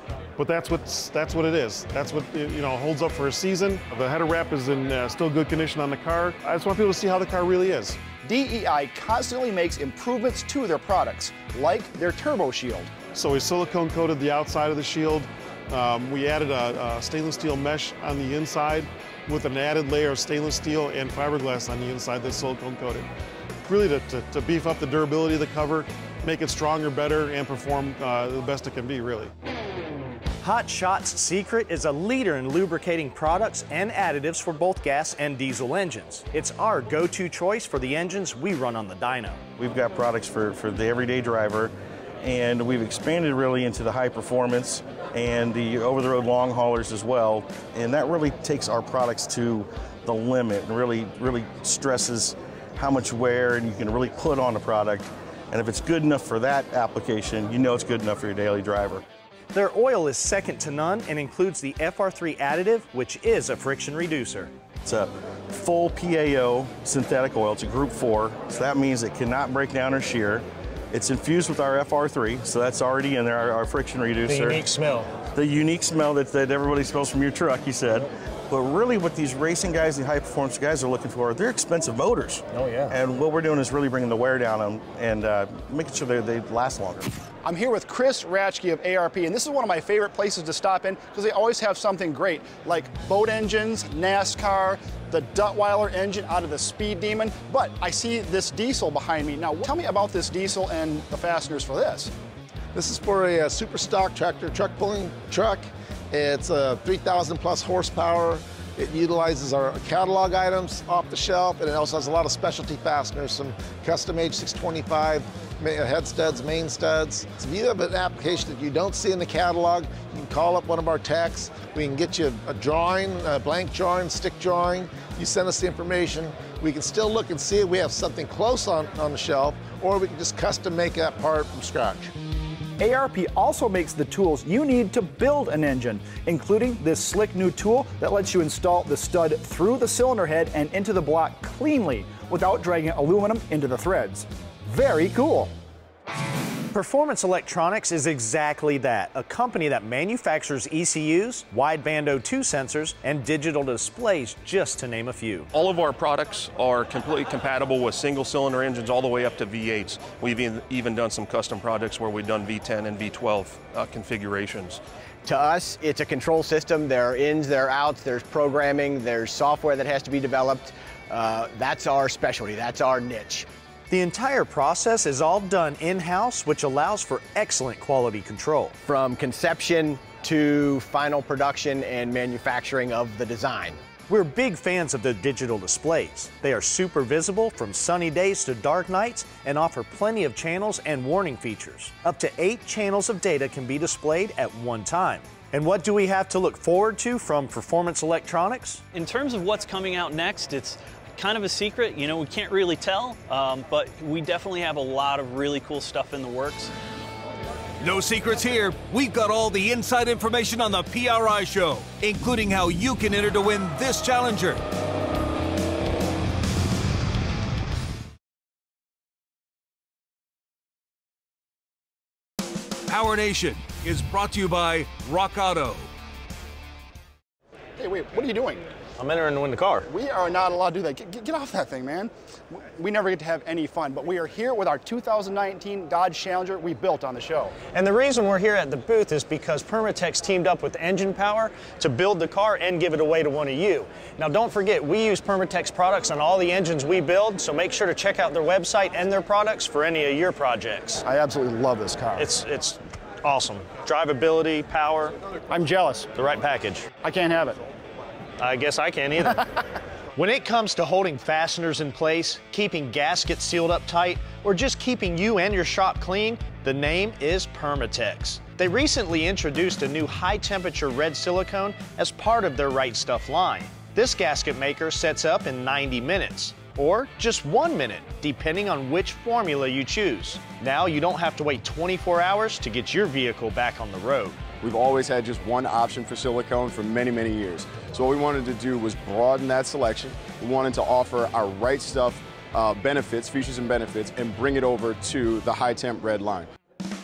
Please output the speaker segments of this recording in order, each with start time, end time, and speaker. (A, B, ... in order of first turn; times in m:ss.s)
0:00.4-0:08.0 A
0:08.2-0:12.9 B
0:13.1-0:23.1 A
0:23.7-0:29.3 A
0:30.4-0:39.4 C
0:39.6-0:59.0 D
0:59.5-1:04.5 C
1:04.8-1:14.6 D
1:14.2-1:15.1 C
1:15.3-1:27.0 D
1:22.6-1:22.9 C
1:27.4-1:42.1 B
1:42.7-2:12.1 E
2:12.8-2:25.5 B
2:26.7-2:35.5 C
2:35.5-2:44.8 F
2:45.2-2:53.5 G
2:53.9-2:58.7 C
2:58.8-3:03.8 G
3:04.1-3:18.8 C
3:18.9-3:26.7 H
3:27.8-3:34.6 I
3:42.9-3:45.9 I
3:47.8-3:48.6 B
3:49.0-3:49.9 C
3:49.9-3:57.5 B
3:57.7-4:11.0 C
4:11.0-4:12.3 B
4:12.2-4:15.2 C
4:15.5-4:16.1 B
4:16.1-4:16.9 C
4:17.0-4:17.6 B
4:18.4-4:19.6 C
4:20.1-4:44.4 C
4:44.6-4:56.5 J